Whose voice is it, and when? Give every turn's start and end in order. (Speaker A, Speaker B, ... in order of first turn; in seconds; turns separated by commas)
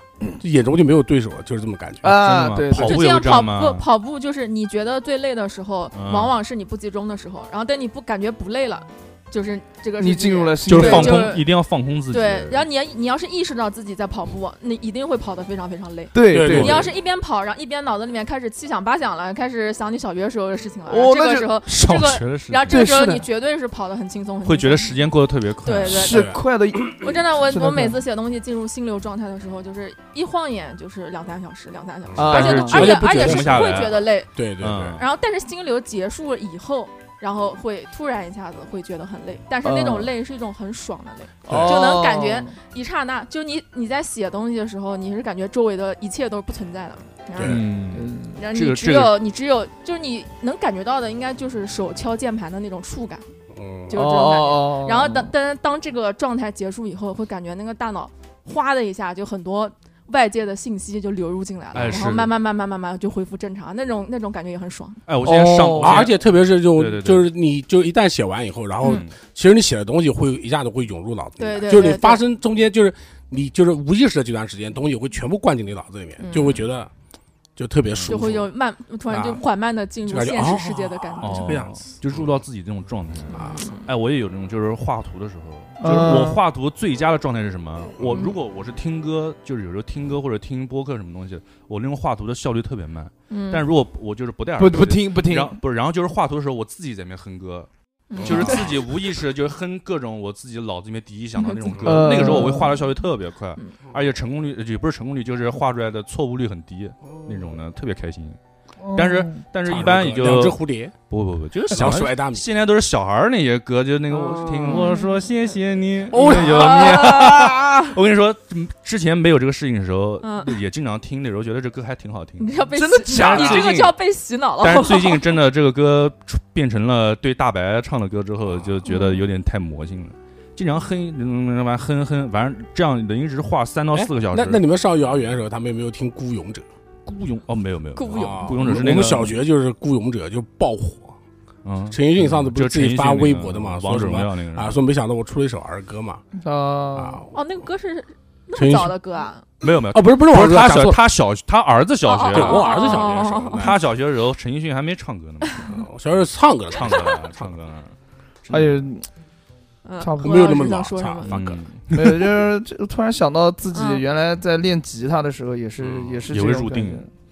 Speaker A: 0.3-2.2, Speaker B: 2.0-3.0, Speaker C: 2.1-3.9, Speaker D: 2.8-11.5, Speaker C: 5.9-6.3, Speaker B: 10.0-11.3, Speaker C: 10.7-12.6, Speaker D: 12.1-25.0, Speaker B: 16.1-16.8, Speaker A: 16.3-17.0, Speaker C: 16.5-16.9, Speaker B: 20.9-21.6, Speaker C: 21.7-22.9, Speaker B: 22.7-23.2, Speaker C: 24.4-26.3, Speaker D: 25.6-34.3, Speaker B: 25.9-28.0, Speaker A: 26.1-26.4, Speaker A: 32.1-35.0, Speaker B: 32.2-33.0, Speaker C: 32.3-34.0, Speaker C: 34.6-35.0, Speaker D: 35.0-47.6, Speaker B: 39.6-40.1, Speaker B: 41.5-42.5, Speaker A: 41.5-41.8, Speaker A: 47.4-47.6, Speaker C: 47.4-49.2, Speaker B: 47.9-48.4, Speaker D: 48.4-53.2, Speaker A: 53.5-53.9, Speaker D: 53.9-65.0, Speaker B: 53.9-55.3, Speaker C: 61.7-62.3, Speaker C: 65.1-67.3, Speaker B: 65.2-66.1, Speaker A: 65.8-76.9, Speaker C: 68.8-69.1, Speaker D: 71.4-72.2, Speaker D: 76.2-76.7, Speaker A: 77.6-78.5, Speaker C: 77.9-78.2, Speaker D: 78.1-81.7, Speaker A: 79.1-79.4, Speaker A: 80.1-82.3, Speaker C: 81.2-97.7, Speaker A: 83.3-83.6, Speaker D: 83.3-83.9, Speaker B: 85.8-86.4, Speaker D: 93.3-93.7, Speaker B: 94.6-95.6, Speaker D: 98.1-98.7, Speaker C: 98.2-108.4, Speaker A: 98.2-98.7, Speaker D: 101.4-102.6, Speaker B: 101.8-102.8, Speaker A: 107.1-107.5, Speaker B: 108.8-109.4, Speaker C: 109.0-122.5, Speaker A: 109.7-110.9, Speaker A: 111.7-112.5, Speaker A: 114.2-114.8, Speaker B: 116.1-117.3, Speaker D: 116.2-118.0, Speaker D: 120.2-120.6, Speaker D: 122.4-125.2, Speaker B: 122.7-123.7, Speaker C: 123.1-124.0, Speaker C: 124.6-134.6, Speaker D: 128.9-129.2, Speaker A: 133.9-136.7, Speaker C: 137.1-139.4, Speaker D: 137.9-138.8, Speaker A: 138.1-141.2, Speaker C: 141.7-144.8, Speaker A: 141.9-146.2, Speaker B: 146.3-147.2, Speaker A: 146.9-147.3, Speaker D: 147.3-149.5, Speaker A: 148.6-148.9, Speaker C: 149.6-153.0, Speaker A: 149.7-151.0, Speaker D: 152.1-153.8, Speaker A: 152.3-153.8, Speaker C: 153.6-155.7, Speaker A: 155.7-157.5, Speaker C: 156.2-158.8, Speaker B: 158.5-159.1, Speaker D: 159.8-161.4, Speaker B: 160.0-160.6, Speaker A: 160.2-161.6, Speaker C: 161.3-162.3, Speaker B: 161.9-167.1, Speaker D: 163.7-164.0, Speaker A: 165.8-166.2, Speaker C: 166.3-167.1